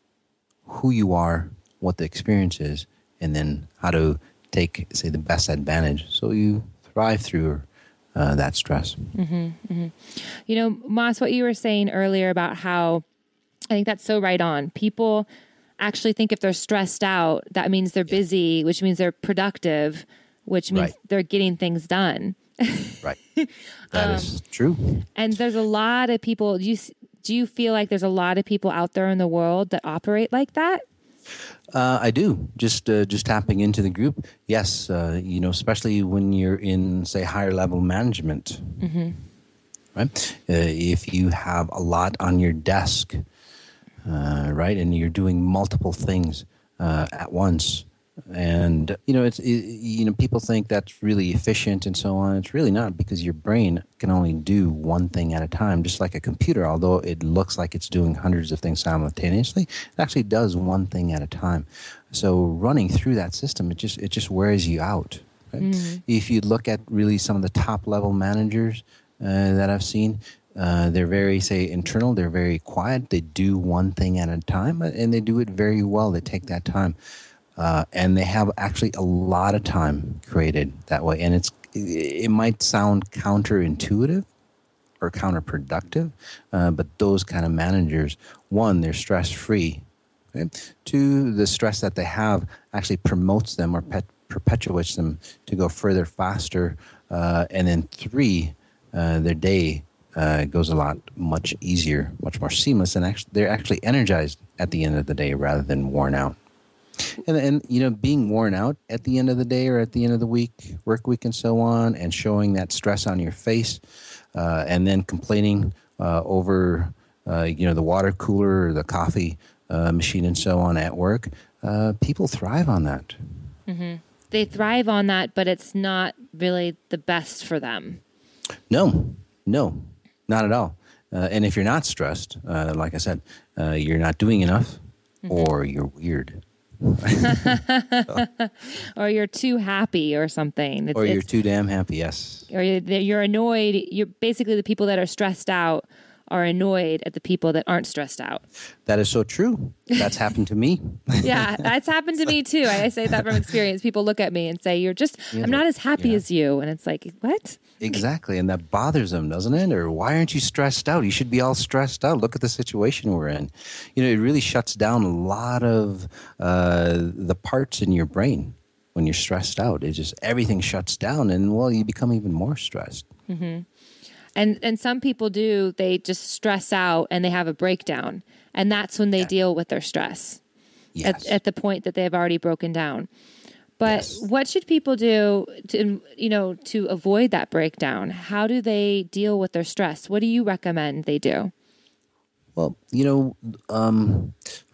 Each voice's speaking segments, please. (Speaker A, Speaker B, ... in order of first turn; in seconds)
Speaker A: 0.7-9.1, 23.9-25.0, 31.7-38.8, 39.9-43.2, 44.0-77.0, 77.6-84.3, 85.0-106.4, 107.0-123.2, 128.7-138.2, 140.9-142.5, 148.8-151.7, 155.3-156.2, 157.8-173.1, 180.9-181.3, 183.8-184.2, 192.5-194.4
Speaker B: 9.1-13.0, 13.7-15.3, 15.8-24.3, 25.1-30.8, 38.8-39.2, 65.6-66.0, 123.7-128.0, 135.2-135.5, 137.2-141.2, 142.5-148.4, 151.2-158.0, 173.3-173.7, 174.3-180.4, 181.0-183.1, 183.8-191.5